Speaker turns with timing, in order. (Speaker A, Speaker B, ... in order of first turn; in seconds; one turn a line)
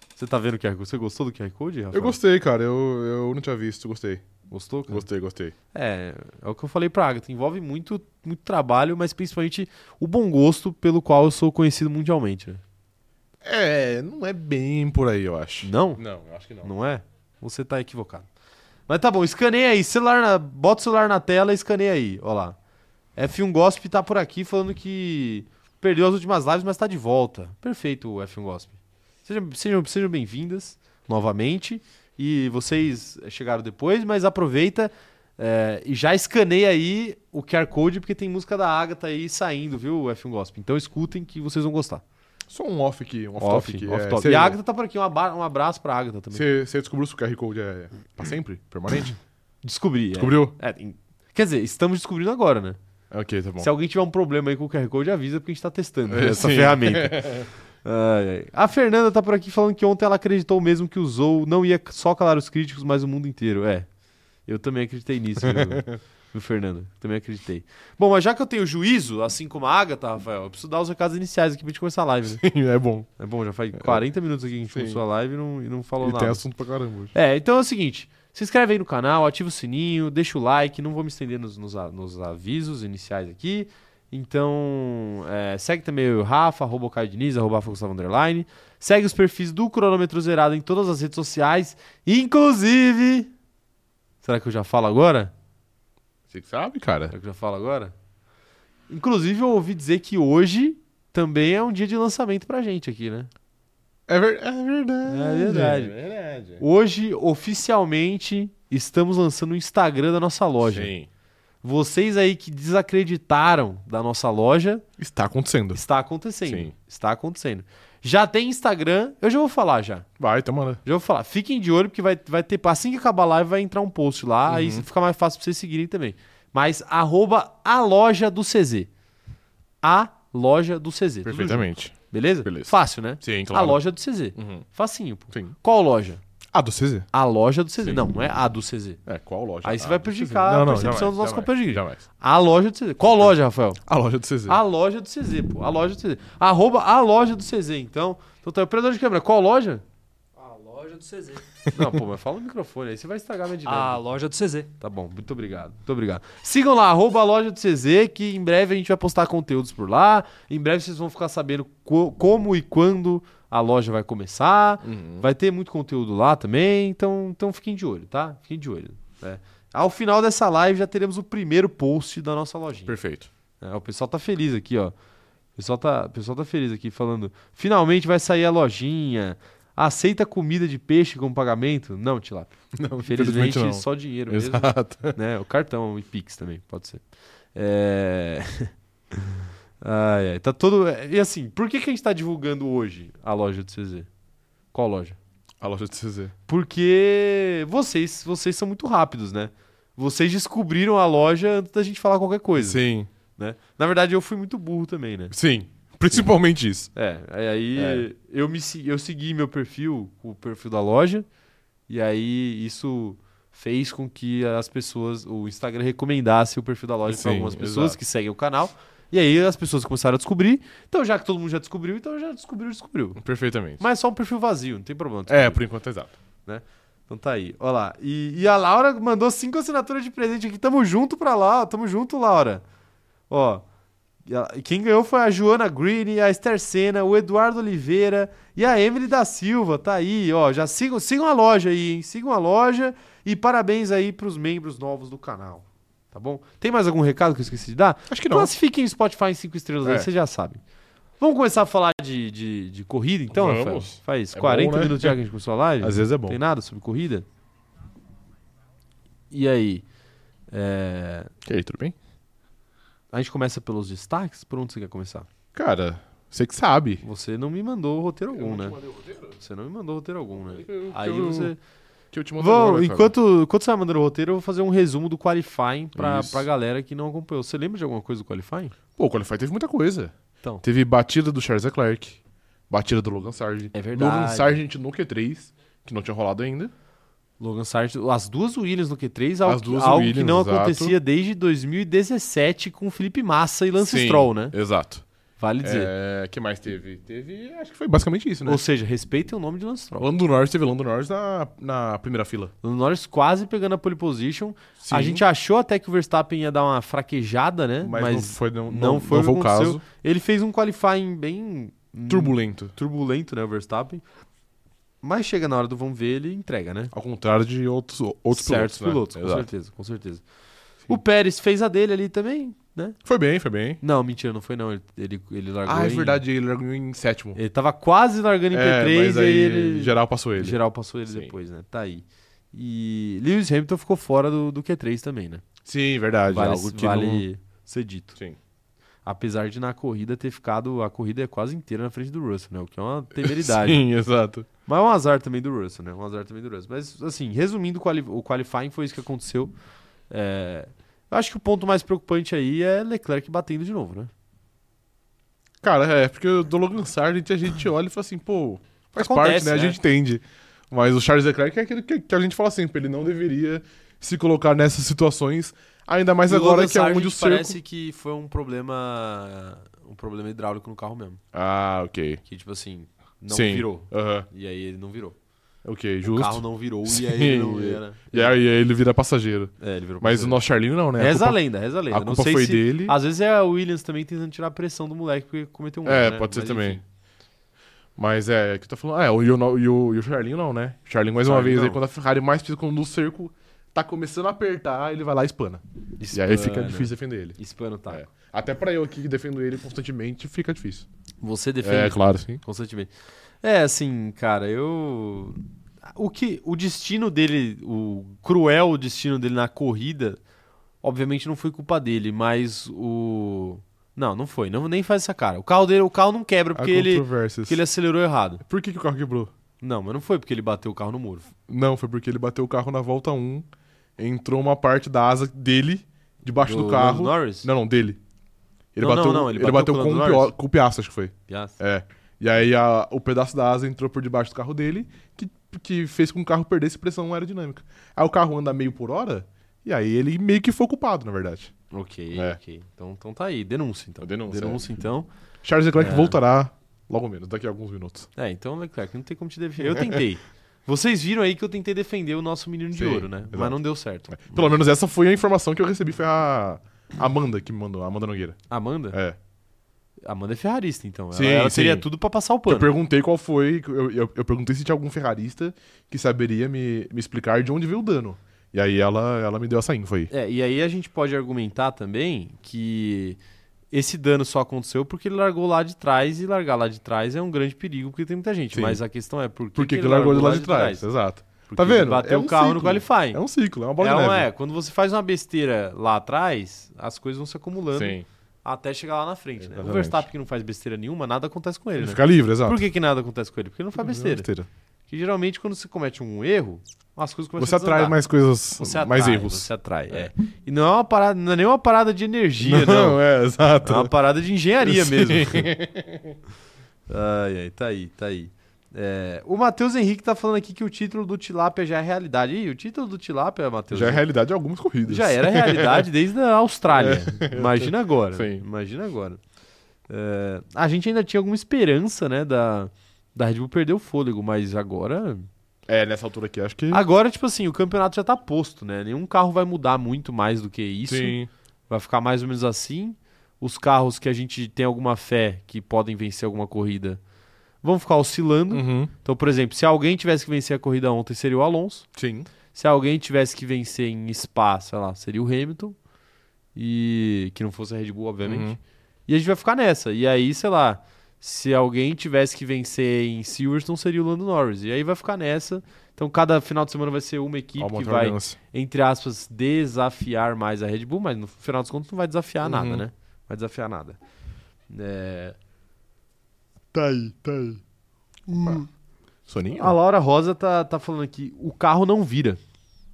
Speaker A: 0.2-2.2
Speaker B: 1.9-4.2
Speaker A: 4.5-5.0
Speaker B: 4.9-5.5
Speaker A: 5.7-12.6
Speaker B: 13.4-16.7
Speaker A: 15.6-16.0
Speaker A: 16.6-18.3
Speaker A: 18.9-22.6
Speaker A: 23.2-42.0
Speaker B: 42.5-44.6
Speaker A: 43.4-46.5
Speaker B: 46.3-49.2
Speaker A: 49.6-52.8
Speaker B: 50.1-50.5
Speaker B: 53.1-53.7
Speaker A: 53.6-63.9
Speaker B: 56.1-57.5
Speaker A: 64.5-72.4
Speaker B: 65.4-66.0
Speaker B: 72.3-73.1
Speaker A: 73.2-76.4
Speaker B: 73.8-74.0
Speaker B: 74.7-75.0
Speaker B: 76.0-77.1
Speaker A: 77.1-93.3
Speaker A: 94.2-95.3
Speaker B: 96.3-97.1
Speaker A: 97.1-97.9
Speaker A: 98.9-103.3
Speaker B: 104.1-106.6
Speaker A: 105.1-106.0
Speaker A: 106.6-110.9
Speaker B: 110.6-111.1
Speaker A: 111.6-114.8
Speaker B: 115.0-115.8
Speaker A: 115.7-120.1
Speaker B: 116.5-116.7
Speaker B: 120.2-120.8
Speaker A: 120.8-128.9
Speaker B: 124.5-124.9
Speaker A: 129.8-136.2
Speaker B: 131.2-133.8
Speaker B: 134.4-134.7
Speaker B: 136.5-137.1
Speaker A: 137.1-139.0
Speaker B: 139.1-142.0
Speaker A: 139.6-143.8
Speaker B: 143.1-143.3
Speaker B: 143.9-144.6
Speaker A: 144.5-149.8
Speaker C: 150.4-151.4
Speaker B: 151.7-152.0
Speaker A: 151.7-154.0
Speaker C: 153.7-154.7
Speaker A: 154.8-172.9
Speaker B: 164.8-165.3
Speaker B: 172.9-173.3
Speaker A: 173.6-174.9
Speaker A: 175.6-187.0
Speaker B: 182.8-185.2
Speaker A: 187.6-194.1
Speaker A: 194.7-195.2
Speaker B: 195.6-196.3
Speaker A: 196.5-202.8
Speaker B: 202.6-203.1
Speaker A: 203.4-205.3
Speaker B: 205.3-206.9
Speaker A: 206.9-211.3
Speaker B: 207.8-208.1
Speaker A: 211.9-223.2
Speaker B: 217.1-218.0
Speaker B: 223.2-223.8
Speaker A: 223.8-225.6
Speaker B: 225.3-226.2
Speaker A: 226.5-232.6
Speaker A: 233.3-233.6
Speaker A: 234.3-250.6
Speaker B: 248.1-248.5
Speaker B: 249.8-250.1
Speaker A: 251.2-257.2
Speaker B: 253.3-255.2
Speaker B: 255.8-256.4
Speaker A: 259.3-259.9
Speaker A: 260.5-261.3
Speaker B: 261.4-261.9
Speaker A: 263.1-265.3
Speaker B: 265.5-267.0
Speaker A: 267.0-268.8
Speaker B: 268.3-269.3
Speaker A: 269.4-271.6
Speaker B: 270.5-271.5
Speaker B: 272.1-273.1
Speaker A: 272.4-278.8
Speaker B: 276.0-276.4
Speaker B: 279.0-282.2
Speaker B: 282.7-286.7
Speaker A: 283.7-284.6
Speaker A: 287.4-294.6
Speaker B: 289.5-291.0
Speaker B: 293.8-295.1
Speaker A: 295.4-295.9
Speaker B: 295.6-298.6
Speaker A: 298.5-300.1
Speaker B: 300.0-302.5
Speaker A: 302.6-314.0
Speaker B: 304.8-305.2
Speaker B: 307.8-309.8
Speaker B: 312.1-312.7
Speaker A: 315.0-316.9
Speaker B: 316.9-319.5
Speaker A: 318.3-320.2
Speaker A: 320.9-323.0
Speaker B: 323.1-323.8
Speaker A: 323.8-326.2
Speaker B: 325.7-327.4
Speaker A: 327.4-335.4
Speaker B: 328.5-331.3
Speaker B: 335.6-337.2
Speaker A: 336.3-338.2
Speaker A: 339.1-343.8
Speaker B: 343.2-344.5
Speaker A: 344.7-349.5
Speaker A: 350.1-354.1
Speaker B: 355.6-367.6
Speaker A: 359.0-359.8
Speaker A: 366.3-371.2
Speaker B: 371.3-372.2
Speaker A: 372.2-375.2
Speaker B: 373.3-374.3
Speaker B: 375.6-381.4
Speaker A: 376.1-378.4
Speaker A: 379.6-380.4
Speaker A: 381.0-386.8
Speaker B: 381.9-383.0
Speaker B: 385.9-386.8
Speaker B: 388.0-397.4
Speaker A: 391.2-391.8
Speaker A: 396.0-398.0
Speaker B: 397.9-400.9
Speaker A: 401.2-402.9
Speaker B: 401.6-402.4
Speaker A: 403.4-410.2
Speaker A: 410.8-418.4
Speaker B: 416.6-417.6
Speaker B: 418.4-419.3
Speaker A: 419.6-421.3
Speaker B: 421.5-423.5
Speaker B: 424.0-428.0
Speaker A: 426.4-427.5
Speaker B: 428.8-441.5
Speaker A: 428.8-430.3
Speaker A: 431.3-431.6
Speaker A: 441.7-445.1
Speaker B: 444.0-444.6
Speaker B: 445.4-448.1
Speaker A: 445.8-446.2
Speaker A: 448.2-454.6
Speaker B: 449.7-450.0
Speaker B: 452.7-453.6
Speaker B: 454.1-458.4
Speaker A: 458.5-459.0
Speaker B: 458.9-459.2
Speaker A: 460.0-462.7
Speaker B: 461.1-461.9
Speaker B: 462.5-470.1
Speaker A: 470.1-473.2
Speaker A: 473.7-480.8
Speaker B: 478.5-478.8
Speaker B: 479.6-484.3
Speaker A: 481.5-483.2
Speaker A: 483.8-494.3
Speaker B: 487.8-488.1
Speaker B: 489.4-490.1
Speaker B: 491.8-492.6
Speaker B: 493.8-494.5
Speaker A: 494.9-498.0
Speaker B: 497.4-500.1
Speaker A: 498.6-503.0
Speaker B: 502.4-503.9
Speaker A: 503.6-505.5
Speaker B: 504.6-506.2
Speaker A: 506.9-514.0
Speaker B: 513.7-515.9
Speaker A: 514.9-519.2
Speaker B: 516.7-518.4
Speaker A: 519.9-525.3
Speaker B: 525.7-526.8
Speaker A: 526.7-531.2
Speaker B: 530.9-531.3
Speaker A: 531.7-537.0
Speaker A: 537.6-541.9
Speaker B: 538.5-538.9
Speaker B: 542.0-542.3
Speaker A: 542.5-545.8
Speaker A: 546.5-548.6
Speaker B: 548.2-548.6
Speaker A: 549.1-564.0
Speaker B: 557.6-558.4
Speaker B: 562.4-562.8
Speaker A: 564.7-565.4
Speaker A: 566.7-567.6
Speaker A: 568.3-568.7
Speaker B: 569.3-569.8
Speaker A: 569.5-572.4